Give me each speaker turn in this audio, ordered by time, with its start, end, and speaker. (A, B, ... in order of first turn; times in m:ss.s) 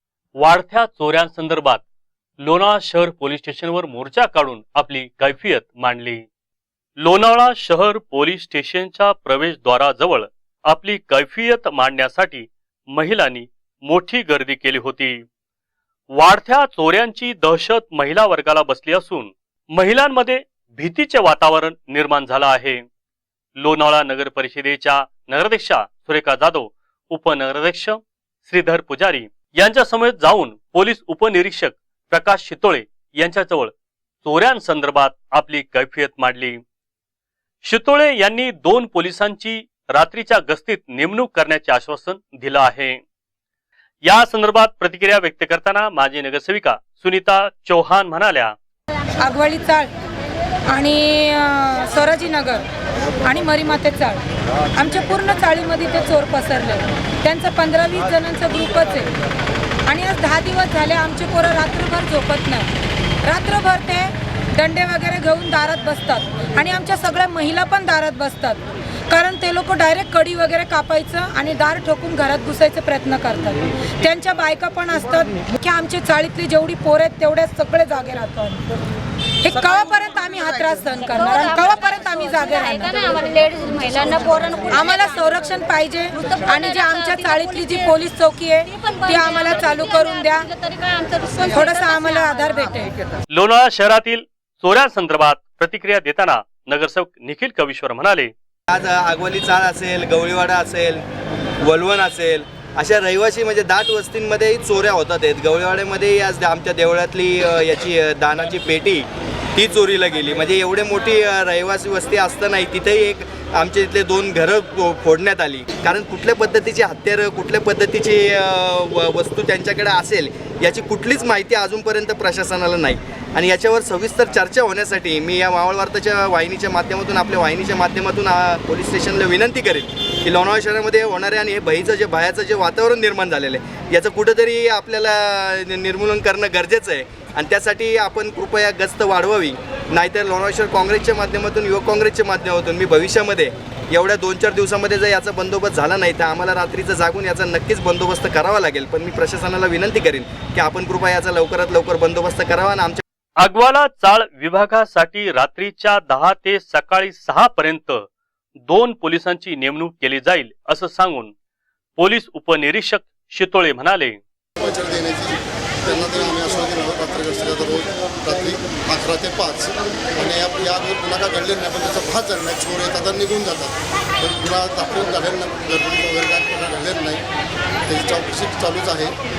0:00.4-0:01.8 A
0:02.4-0:06.2 A
0:07.0-0:15.2 A
0:16.1-0:22.8 A
0:23.6-0:33.7 A
0:34.2-0:36.6 A
0:37.6-0:43.0 A
0:44.0-0:48.5 A
0:49.2-0:49.9 B
0:50.7-0:52.6 B
0:53.2-0:54.2 B
0:54.8-0:59.1 B
0:59.8-1:02.7 B
1:03.2-1:18.7 B
1:19.4-1:30.5 B
1:23.3-1:24.7 C
1:30.7-1:31.2 C
1:31.2-1:32.9 B
1:33.3-1:38.3 A
1:38.7-1:41.0 D
1:41.6-2:33.0 D
2:33.4-2:38.1 A
2:38.6-2:41.3 A
2:42.0-2:44.2 A
2:44.6-2:57.2 E
2:57.8-2:59.2 E